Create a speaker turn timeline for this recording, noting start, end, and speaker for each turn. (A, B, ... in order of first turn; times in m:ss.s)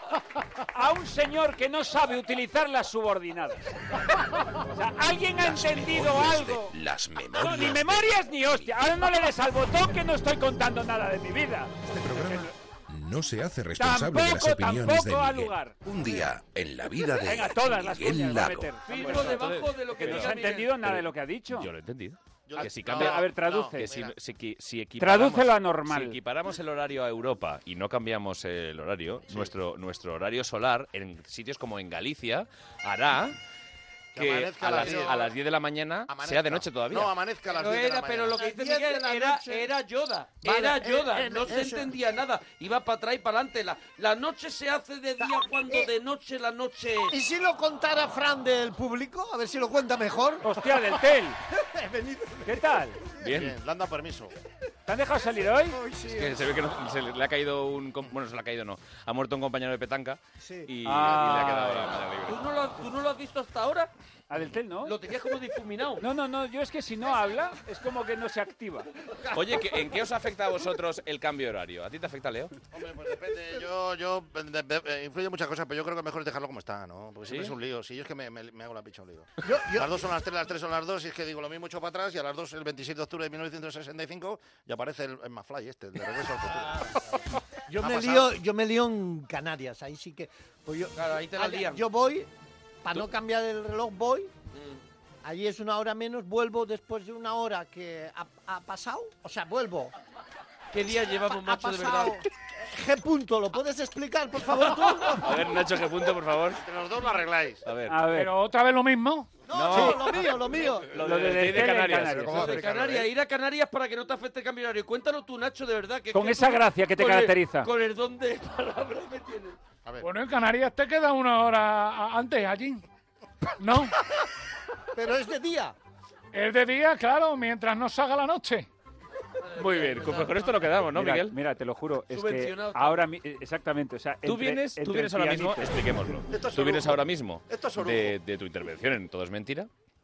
0:00.7-0:04.0 A
0:04.7-0:06.8 A
0:05.3-0:09.0 B
0:07.3-0:12.5 A
0:11.8-0:18.7 B
0:13.8-0:15.8 A
0:17.2-0:21.7 A
0:18.8-0:20.7 C
0:18.9-0:33.4 D
0:22.5-0:24.1 E
0:22.6-0:23.9 A
0:25.0-0:26.2 A
0:34.1-0:35.3 E
0:34.2-0:37.1 D
0:36.1-0:38.4 E
0:37.5-0:47.2 C
0:38.4-0:39.7 F
0:40.4-0:41.9 F
0:47.1-0:52.8 F
0:50.4-0:51.4 A
0:52.4-0:53.0 A
0:53.2-0:53.5 D
0:53.2-0:54.3 E
0:54.9-0:55.8 A
0:55.7-0:56.5 F
0:56.1-1:02.4 D
1:00.4-1:00.7 F
1:00.8-1:02.0 A
1:02.2-1:03.9 C
1:04.3-1:04.9 A
1:04.8-1:06.0 C
1:06.0-1:08.9 A
1:09.3-1:12.5 D
1:12.7-1:27.0 E
1:19.4-1:19.9 F
1:27.7-1:32.3 F
1:27.8-1:28.3 E
1:31.0-1:31.8 C
1:32.8-1:34.3 F
1:34.5-1:34.8 C
1:35.2-1:39.9 F
1:40.7-1:42.2 C
1:41.4-1:45.3 F
1:45.2-1:46.6 D
1:46.6-1:47.6 E
1:47.6-1:48.0 D
1:47.9-1:48.3 A
1:48.1-1:49.3 G
1:49.5-1:51.0 F
1:49.5-1:53.0 D
1:51.0-1:52.9 A
1:52.3-1:59.6 C
1:56.1-1:57.7 A
2:00.0-2:02.8 G
2:03.6-2:03.9 G
2:04.9-2:05.7 F
2:06.3-2:08.7 G
2:09.4-2:10.6 C
2:09.6-2:11.4 D
2:10.9-2:16.1 A
2:12.1-2:13.1 C
2:14.2-2:19.7 D
2:16.3-2:18.2 E